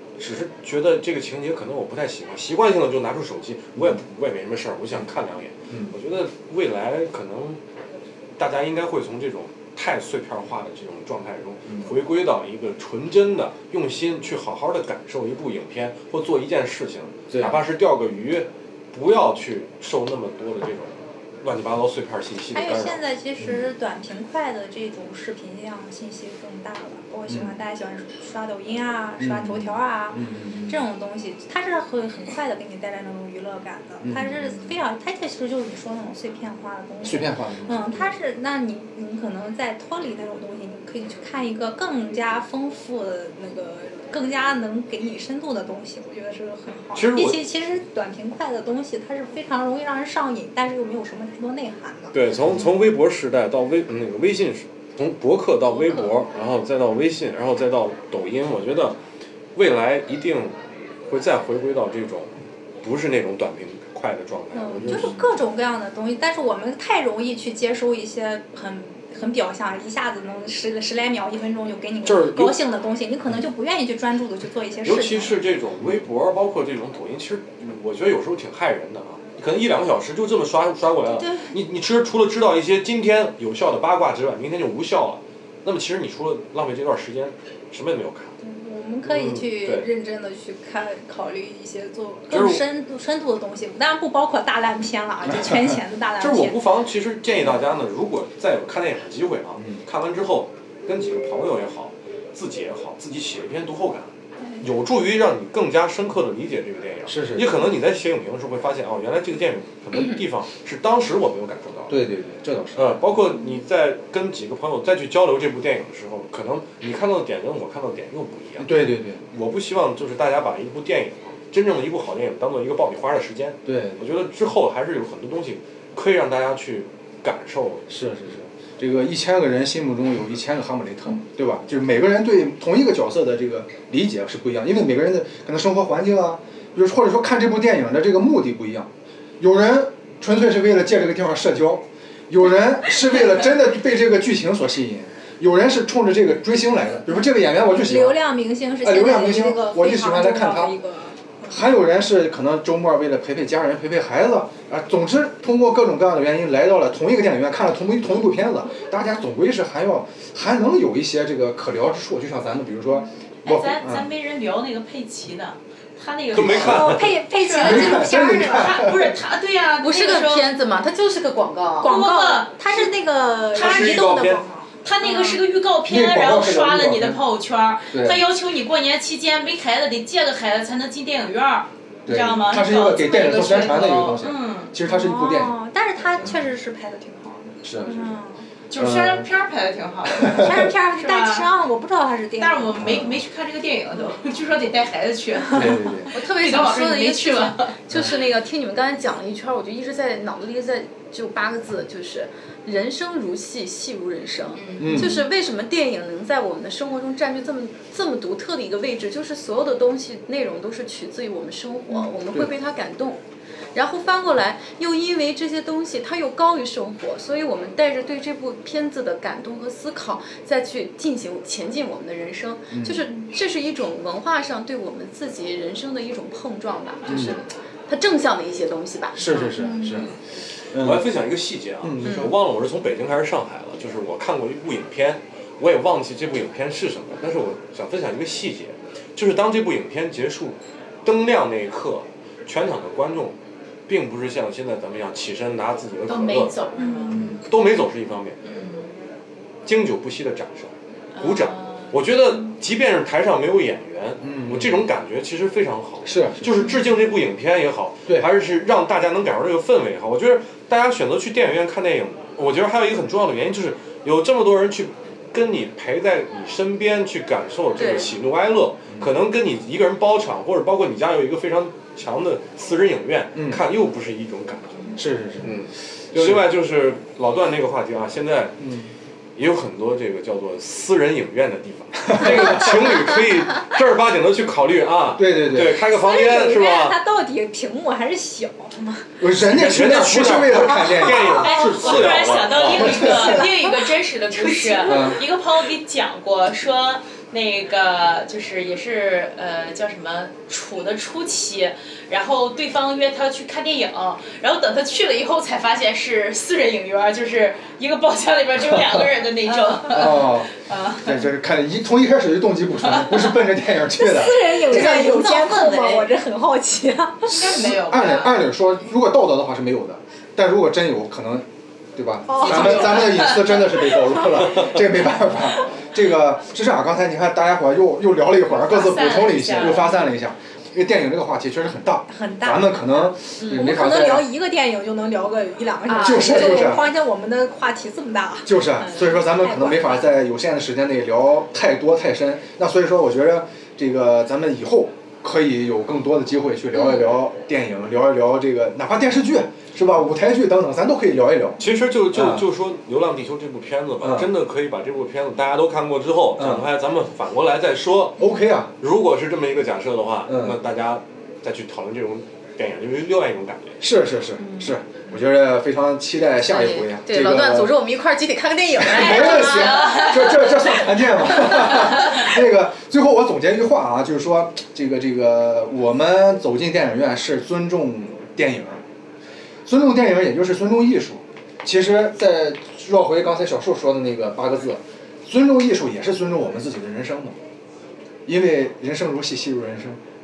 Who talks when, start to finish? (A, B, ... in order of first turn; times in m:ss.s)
0:00.2-0:07.6 A
0:08.4-0:23.0 A
0:17.3-0:17.6 B
0:22.5-0:52.2 C
0:23.4-0:23.7 B
0:29.2-0:30.8 B
0:34.0-0:34.7 B
0:37.0-0:38.1 B
0:47.0-0:47.4 A
0:52.1-0:59.0 A
0:55.8-0:56.1 C
0:59.6-1:00.5 A
1:01.1-1:02.3 A
1:02.8-1:05.2 A
1:04.5-1:15.4 C
1:12.0-1:12.6 A
1:14.8-1:28.4 A
1:21.2-1:21.5 C
1:28.4-1:36.6 C
1:29.0-1:29.9 A
1:32.3-1:32.6 A
1:36.2-1:44.1 A
1:44.6-1:52.0 A
1:47.1-1:47.5 B
1:51.9-1:53.0 B
1:52.8-1:58.7 A
1:58.6-1:59.2 B
1:59.3-2:07.9 A
2:03.7-2:04.0 B
2:07.9-2:28.2 B
2:27.7-2:31.6 C
2:28.8-2:30.7 B
2:31.5-2:44.1 B
2:43.4-2:50.5 D
2:46.3-2:47.2 A
2:46.4-2:48.8 C
2:47.6-2:49.1 B
2:49.8-2:51.9 E
2:51.8-2:55.4 C
2:51.8-2:52.9 D
2:53.5-2:54.3 D
2:53.5-2:54.4 A
2:54.8-3:04.8 D
2:55.8-2:57.2 B
2:57.9-2:58.2 B
3:02.1-3:05.6 B
3:04.8-3:08.4 C
3:07.6-3:08.2 B
3:08.7-3:11.5 D
3:08.8-3:09.2 B
3:10.1-3:10.5 B
3:10.3-3:13.0 C
3:12.4-3:17.8 D
3:12.8-3:13.2 B
3:15.5-3:16.1 B
3:16.1-3:33.2 E
3:17.9-3:18.2 B
3:24.6-3:25.1 D
3:24.8-3:25.2 B
3:33.7-3:49.5 E
3:42.7-3:43.1 B
3:47.1-3:47.4 B
3:49.2-3:50.1 B
3:49.6-3:50.1 C
3:50.7-3:51.1 B
3:50.7-4:03.4 A
3:51.8-3:52.4 B
4:03.9-4:06.6 A
4:06.1-4:07.4 D
4:06.8-4:07.2 C
4:07.1-4:07.4 B
4:07.2-4:08.4 A
4:08.4-4:09.0 D
4:09.7-4:38.6 A
4:11.2-4:11.9 D
4:14.2-4:14.9 B
4:16.0-4:16.7 B
4:27.8-4:28.1 E
4:33.4-4:33.6 B
4:35.0-4:35.6 B
4:36.1-4:36.5 B
4:38.6-4:38.9 B
4:39.4-4:47.0 A
4:42.0-4:43.1 B
4:45.2-4:45.8 B
4:45.9-4:48.8 C
4:49.2-4:52.0 B
4:49.4-4:53.4 A
4:50.8-4:52.0 C
4:51.2-5:11.2 D
4:52.6-4:55.1 C
4:52.7-4:53.4 B
4:54.8-4:55.3 B
5:09.9-5:15.2 B
5:13.8-5:17.4 C
5:14.7-5:16.1 D
5:17.3-5:18.4 D
5:17.4-5:34.3 B
5:22.3-5:24.5 C
5:22.4-5:23.1 D
5:28.5-5:30.0 D
5:32.1-5:40.0 C
5:35.9-5:36.8 E
5:36.0-5:36.9 B
5:38.4-5:51.6 B
5:51.6-5:58.2 A
5:52.1-5:52.5 B
5:54.0-5:54.3 B
5:56.4-5:56.7 B
5:58.2-5:58.7 B
5:58.8-6:03.8 A
6:00.3-6:00.6 B
6:03.8-6:07.8 B
6:04.4-6:04.7 E
6:06.5-6:12.2 E
6:08.7-6:18.8 B
6:09.5-6:10.1 D
6:19.7-6:27.4 B
6:28.3-6:30.0 B